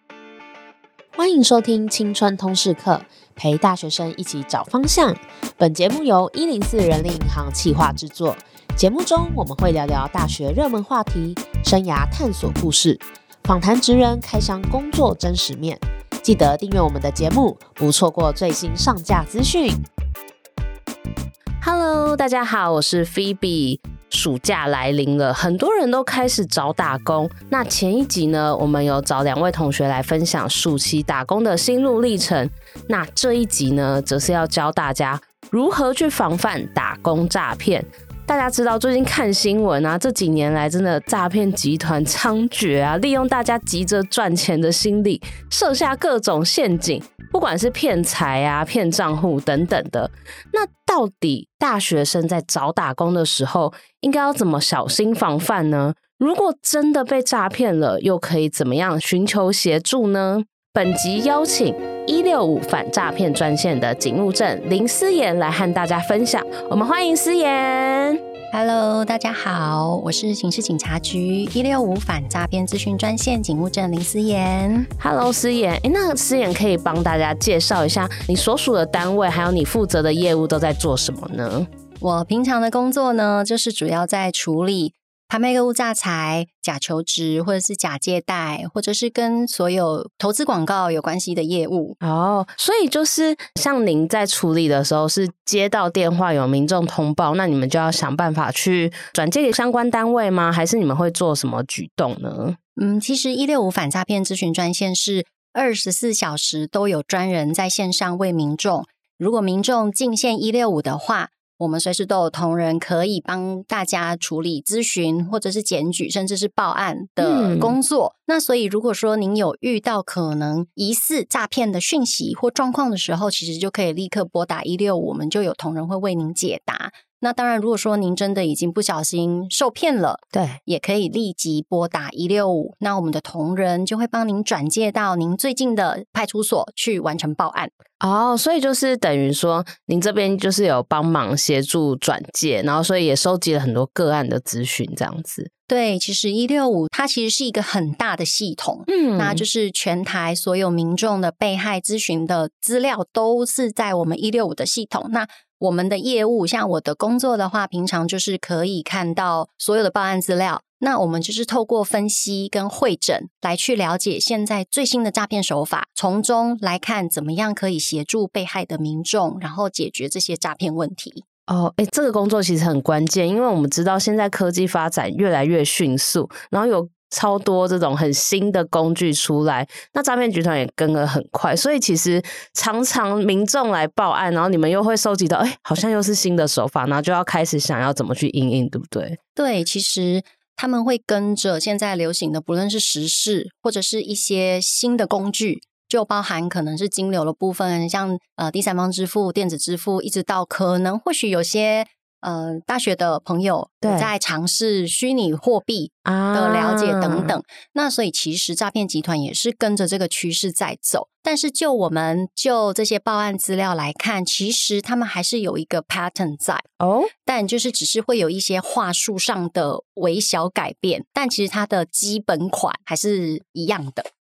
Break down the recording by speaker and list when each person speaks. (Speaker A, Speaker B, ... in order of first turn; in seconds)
Speaker A: 1.2-19.8
Speaker B: 21.6-68.2, 75.0-81.7, 92.0-102.6, 117.2-117.8, 130.3-130.6, 138.0-145.5, 148.9-149.4, 171.5-189.2, 203.8-204.1, 206.1-207.4, 216.8-217.1
Speaker C: 68.5-74.9, 82.0-92.0, 102.8-137.7, 145.7-171.2, 189.4-216.7, 217.2-224.1